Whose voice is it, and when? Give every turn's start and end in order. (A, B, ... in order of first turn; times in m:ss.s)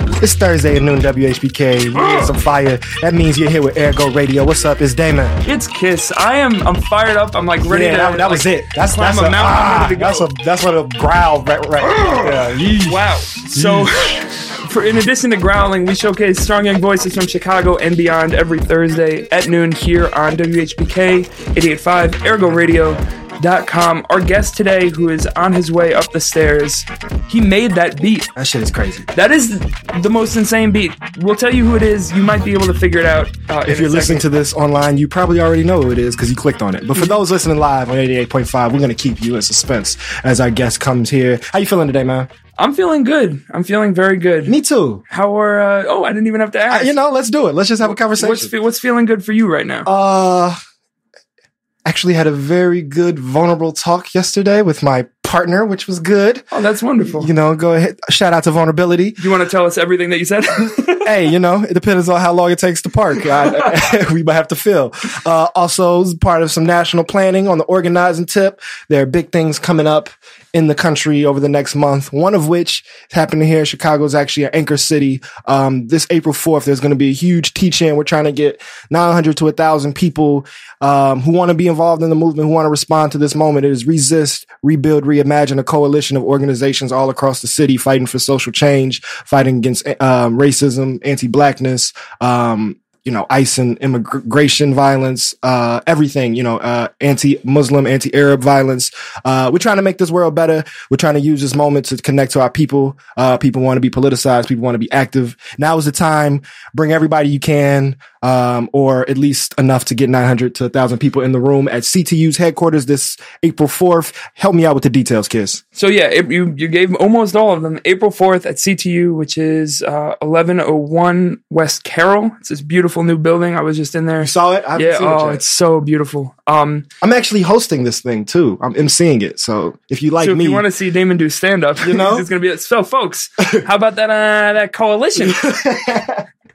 0:00.2-0:05.4 A
0:01.9-0:02.3 B
0:05.4-0:10.3 B
0:07.7-0:13.0 A
0:12.1-0:28.3 B
0:13.5-0:14.2 A
0:28.3-0:29.1 A
0:29.1-0:34.2 B
0:33.6-0:42.3 A
0:42.6-0:44.6 B
0:44.4-0:45.0 A
0:45.1-0:47.0 B
0:46.7-0:48.5 A
0:47.8-0:49.9 B
0:49.8-0:50.6 A
0:51.8-0:56.4 A
0:56.5-0:57.3 B
0:57.0-0:59.2 A
0:59.2-1:01.1 B
1:01.0-1:55.6 A
1:03.4-1:03.7 B
1:55.7-2:06.9 B
2:04.2-2:05.4 A
2:07.0-2:10.6 A
2:10.2-2:15.5 B
2:11.8-2:12.3 A
2:15.4-2:16.2 A